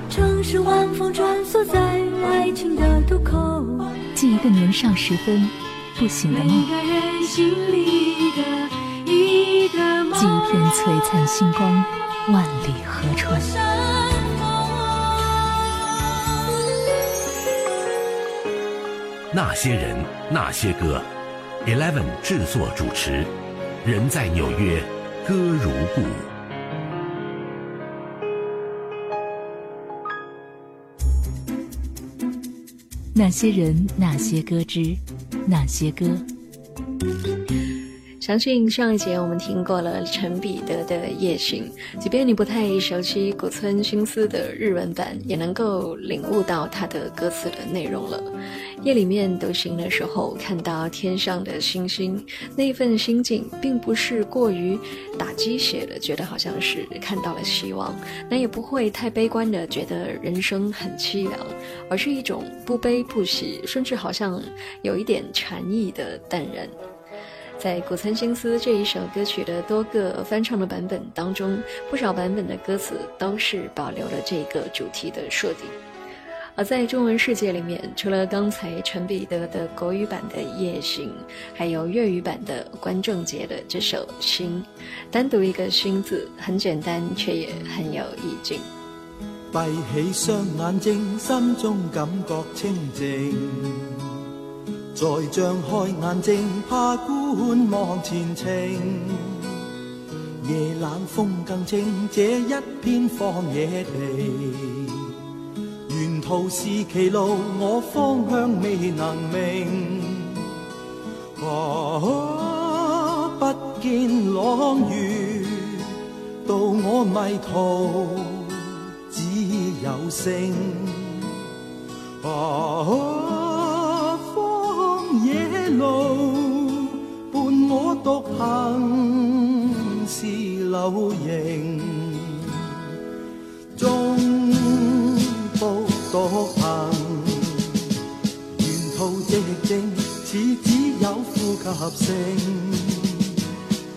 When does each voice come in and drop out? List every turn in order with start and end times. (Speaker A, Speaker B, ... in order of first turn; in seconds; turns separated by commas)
Speaker A: 0.1-4.0, Speaker B: 4.2-6.7, Speaker A: 6.3-10.7, Speaker B: 10.2-13.5, Speaker A: 13.5-15.1, Speaker C: 19.3-21.1, Speaker C: 21.6-23.3, Speaker C: 23.8-26.3, Speaker B: 33.1-36.2, Speaker D: 38.2-48.3, Speaker D: 48.8-66.7, Speaker D: 67.6-75.8, Speaker D: 76.5-88.7, Speaker E: 89.5-94.1, Speaker E: 94.9-99.5, Speaker E: 100.4-105.2, Speaker E: 105.9-110.4, Speaker E: 111.4-121.3, Speaker E: 122.2-132.8, Speaker E: 133.7-137.8, Speaker E: 138.5-143.3